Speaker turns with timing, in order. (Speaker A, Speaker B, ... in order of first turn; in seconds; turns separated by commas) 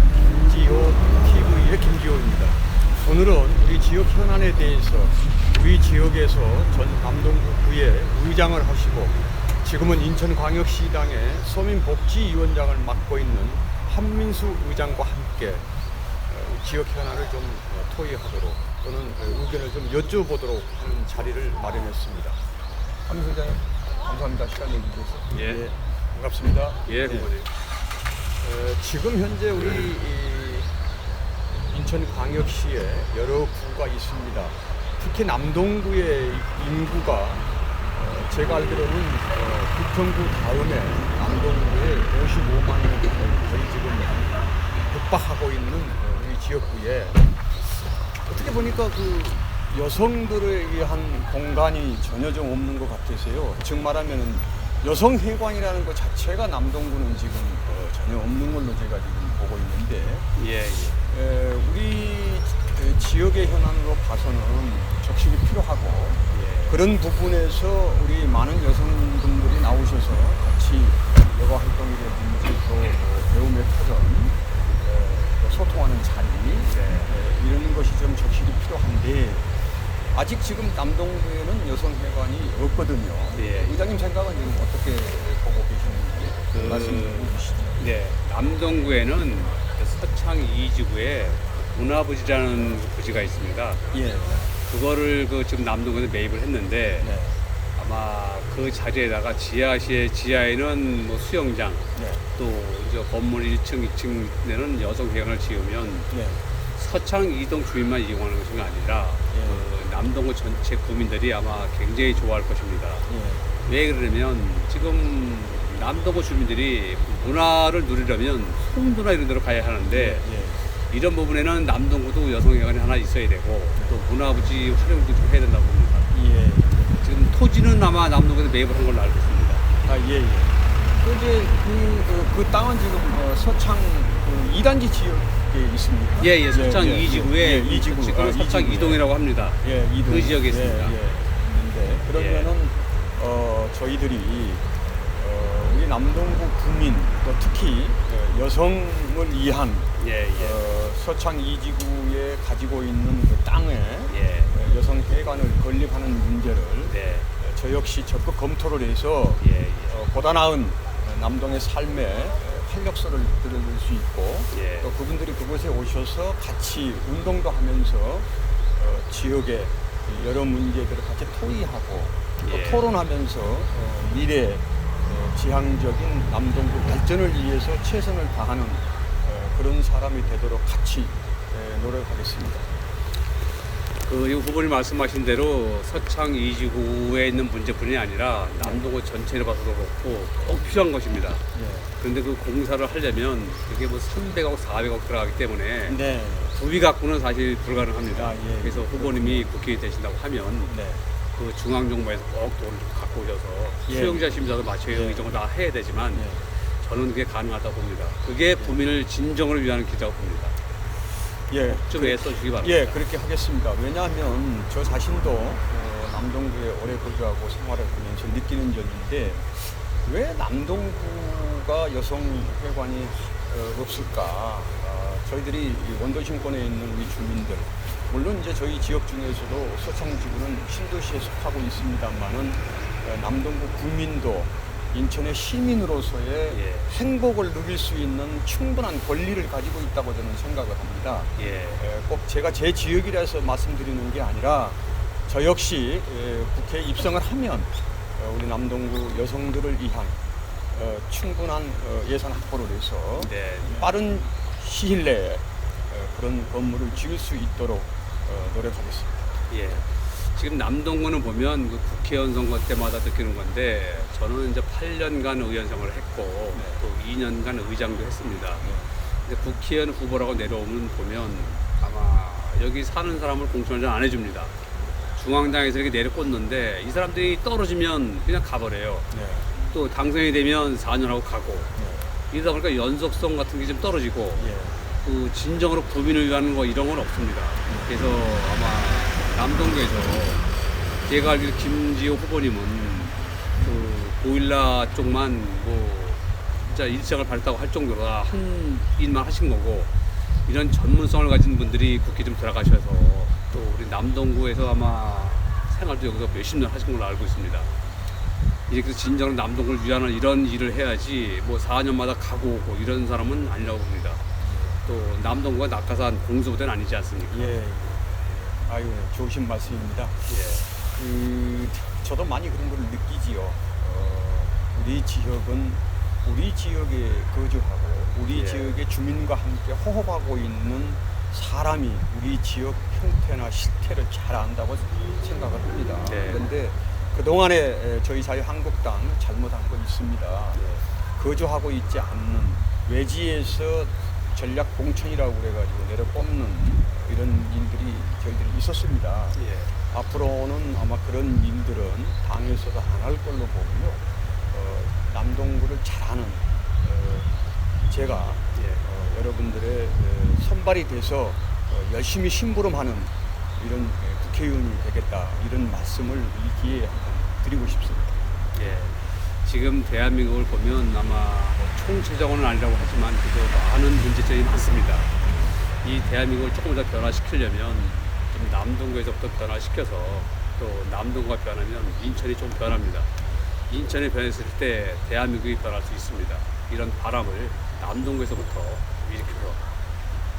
Speaker A: 0.4-15.7, Speaker A: 16.3-22.4, Speaker A: 23.1-27.3, Speaker B: 25.3-25.6, Speaker B: 26.9-27.5, Speaker A: 28.4-30.7, Speaker A: 31.6-47.2, Speaker A: 48.2-60.2, Speaker B: 60.4-61.0, Speaker A: 61.0-79.5, Speaker B: 66.3-66.8, Speaker B: 76.7-77.1, Speaker A: 80.1-87.8, Speaker B: 83.3-83.8, Speaker B: 86.5-93.8, Speaker A: 93.9-94.5, Speaker B: 94.7-97.1, Speaker A: 97.0-97.4, Speaker B: 97.8-106.1, Speaker A: 101.9-102.2, Speaker A: 106.1-106.4, Speaker B: 106.7-113.0, Speaker A: 109.3-109.6, Speaker A: 113.1-113.5, Speaker B: 113.6-126.1, Speaker A: 119.9-120.6, Speaker A: 126.1-127.0, Speaker B: 127.0-129.7, Speaker A: 129.8-139.1, Speaker B: 136.2-140.9, Speaker A: 139.6-182.7, Speaker B: 142.1-142.5, Speaker B: 150.0-150.6, Speaker B: 154.1-154.5, Speaker B: 156.9-157.3, Speaker B: 159.4-160.0, Speaker B: 164.5-164.9, Speaker B: 172.4-172.9, Speaker B: 184.0-191.4, Speaker A: 188.6-188.9, Speaker A: 190.5-190.8, Speaker A: 191.5-191.9, Speaker B: 192.0-196.0, Speaker A: 195.8-196.6, Speaker B: 196.5-200.8, Speaker A: 198.1-199.6, Speaker A: 200.7-201.0, Speaker B: 201.3-210.5, Speaker A: 203.9-204.3, Speaker A: 204.9-205.3, Speaker A: 206.1-206.4, Speaker A: 211.5-250.2, Speaker B: 211.6-213.0, Speaker B: 236.5-236.9, Speaker B: 241.4-241.8, Speaker A: 250.7-259.3, Speaker B: 253.2-253.9, Speaker B: 259.5-274.5, Speaker A: 266.5-266.8, Speaker A: 268.6-268.9, Speaker B: 275.1-279.1, Speaker A: 279.1-279.5, Speaker B: 279.7-281.7, Speaker A: 281.8-282.1, Speaker B: 282.3-284.5, Speaker A: 284.4-285.0, Speaker B: 285.0-290.4, Speaker B: 291.1-299.9, Speaker B: 300.4-307.7, Speaker B: 308.7-314.2, Speaker A: 314.4-314.8, Speaker B: 314.9-317.5, Speaker A: 317.3-320.3, Speaker B: 320.3-320.7, Speaker A: 320.9-340.6, Speaker B: 328.3-328.8, Speaker B: 336.1-336.5, Speaker B: 340.5-340.8, Speaker A: 341.2-349.4, Speaker B: 349.3-349.7, Speaker A: 349.9-357.3, Speaker A: 357.9-368.2, Speaker B: 358.5-358.8, Speaker B: 368.5-375.1, Speaker B: 375.8-383.1, Speaker B: 383.7-389.6